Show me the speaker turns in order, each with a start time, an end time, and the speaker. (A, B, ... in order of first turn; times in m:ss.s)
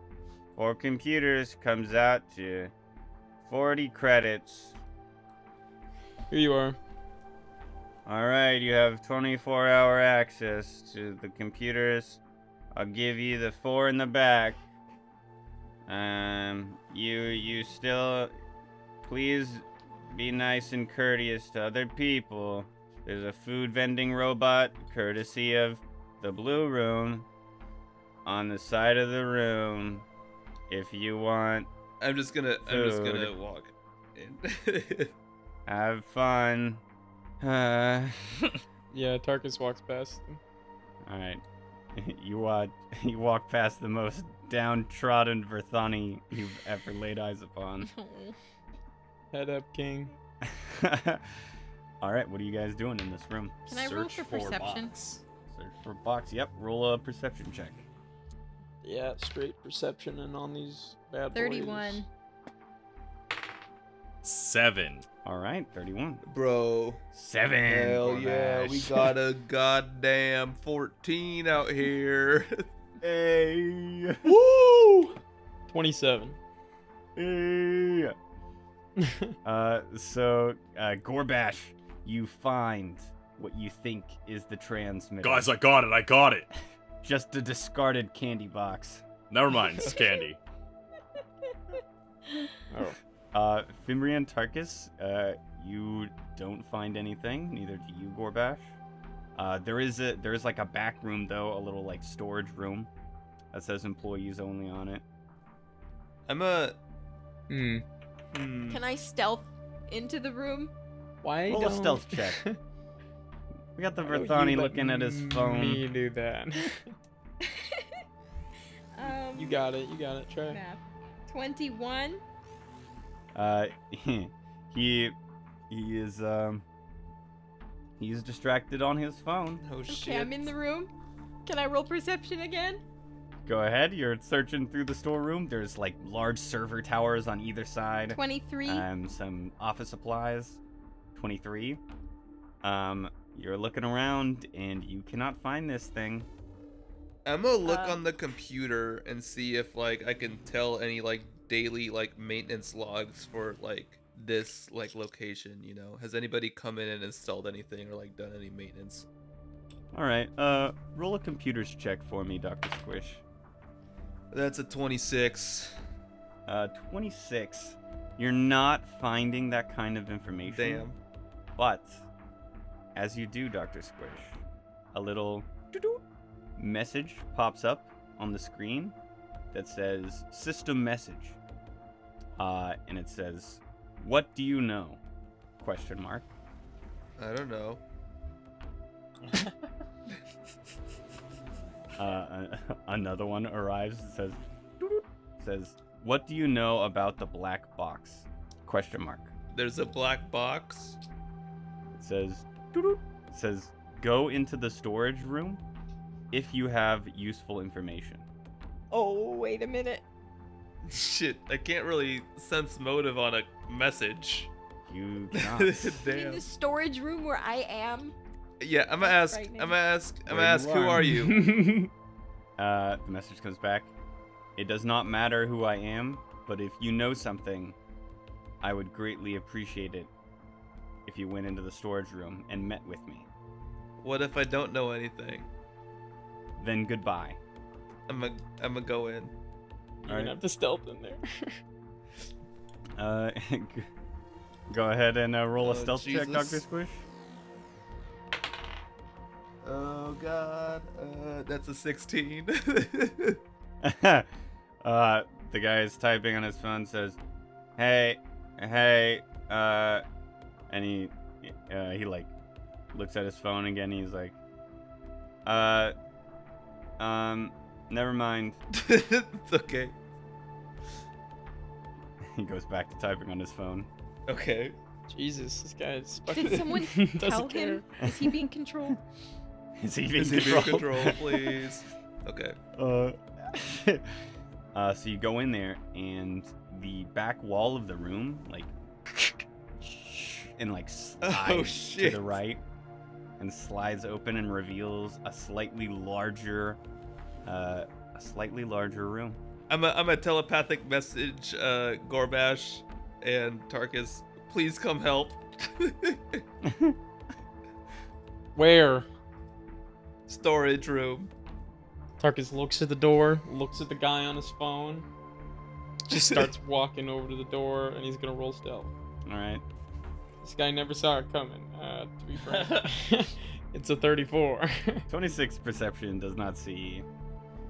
0:00.6-0:02.7 A
0:03.4-0:04.8 A
0:06.3-0:06.8 B
0:08.0-0:12.2 A
0:12.7-0:14.6 A
0:15.9-0:18.3 A
0:19.0-0:27.3 A
0:28.2-0:30.0 A
0:30.7-0:31.7 A
0:32.0-0:35.1 C
0:32.6-0:33.3 A
0:35.7-0:36.8 A
0:37.4-0:38.5 A
0:38.9-0:40.4 B
0:41.0-0:41.4 A
0:41.9-0:47.9 A
0:47.8-0:48.4 D
0:49.3-0:50.1 B
0:50.4-0:51.2 A
0:52.0-0:53.7 A
0:53.7-0:54.9 D
0:53.7-0:55.2 E
0:55.5-0:57.8 A
0:58.8-1:02.0 B
1:01.3-1:02.1 D
1:04.2-1:05.0 E
1:05.2-1:06.2 A
1:06.2-1:07.0 C
1:07.1-1:09.1 A
1:07.7-1:12.6 C
1:13.0-1:14.3 A
1:14.2-1:15.2 C
1:15.7-1:16.4 B
1:17.2-1:18.1 A
1:19.0-1:19.3 B
1:19.4-1:25.5 A
1:25.2-1:26.5 E
1:27.0-1:29.0 A
1:29.3-1:30.4 E
1:29.8-1:30.2 D
1:32.7-1:33.0 B
1:33.3-1:38.7 A
1:39.4-1:42.9 A
1:43.5-1:45.0 A
1:46.3-1:46.8 C
1:47.5-1:47.8 B
1:48.3-1:48.8 B
1:48.7-1:50.7 D
1:51.2-1:52.6 B
1:51.5-1:52.4 A
1:53.8-1:55.8 A
1:54.0-1:56.9 B
1:57.4-1:58.0 D
1:58.9-1:59.7 D
1:59.3-2:00.6 B
2:00.5-2:02.2 D
2:03.3-2:05.1 A
2:05.7-2:06.6 A
2:08.0-2:09.6 A
2:09.6-2:10.5 C
2:09.9-2:10.9 D
2:11.4-2:12.8 D
2:13.4-2:20.6 A
2:18.1-2:18.8 D
2:21.1-2:21.8 A
2:22.6-2:26.3 A
2:27.2-2:39.0 C
2:27.6-2:28.0 D
2:39.9-2:43.2 A
2:44.3-2:45.8 C
2:46.5-2:50.9 A
2:50.4-2:51.0 C
2:51.6-2:52.0 A
2:52.9-2:54.4 A
2:54.9-2:56.0 A
2:56.6-2:58.9 A
2:59.5-3:01.4 A
3:02.4-3:05.0 A
3:05.6-3:06.3 A
3:07.2-3:07.8 C
3:12.0-3:19.3 A
3:19.5-3:21.0 C
3:21.9-3:25.6 A
3:26.3-3:28.2 A
3:28.9-3:30.0 D
3:30.8-3:34.5 C
3:34.9-3:36.0 A
3:35.3-3:36.4 C
3:36.1-3:38.2 D
3:38.6-3:41.4 C
3:39.0-3:39.8 D
3:40.3-3:41.1 A
3:41.0-3:41.9 B
3:42.6-3:43.9 A
3:44.6-3:47.8 A
3:48.6-3:50.1 A
3:51.0-3:53.3 A
3:54.0-3:55.5 C
3:56.6-3:57.4 A
3:58.1-3:59.3 C
4:00.0-4:01.6 B
4:00.1-4:00.4 A
4:03.0-4:03.9 A
4:04.7-4:07.0 A
4:05.6-4:06.6 C
4:09.6-4:13.4 C
4:13.8-4:14.3 A
4:14.8-4:17.2 A
4:17.8-4:20.0 A
4:20.7-4:22.3 A
4:22.9-4:24.4 A
4:25.4-4:25.9 A
4:27.0-4:28.6 A
4:28.7-4:29.9 C
4:32.3-4:33.9 A
4:34.3-4:34.8 C
4:35.1-4:37.8 B
4:36.3-4:39.0 D
4:38.0-4:38.4 A
4:39.8-4:41.6 A
4:40.2-4:42.6 C
4:42.8-4:44.1 A
4:44.7-4:52.6 A
4:51.2-4:52.3 C
4:53.4-4:56.8 A
4:57.4-4:59.4 A
4:59.7-5:06.4 C
5:06.6-5:07.0 A
5:08.5-5:09.1 B
5:10.3-5:11.3 C
5:12.2-5:15.1 B
5:16.1-5:18.9 B
5:16.1-5:16.4 C
5:19.2-5:19.6 A
5:20.4-5:25.1 B
5:22.5-5:22.9 E
5:25.1-5:27.0 A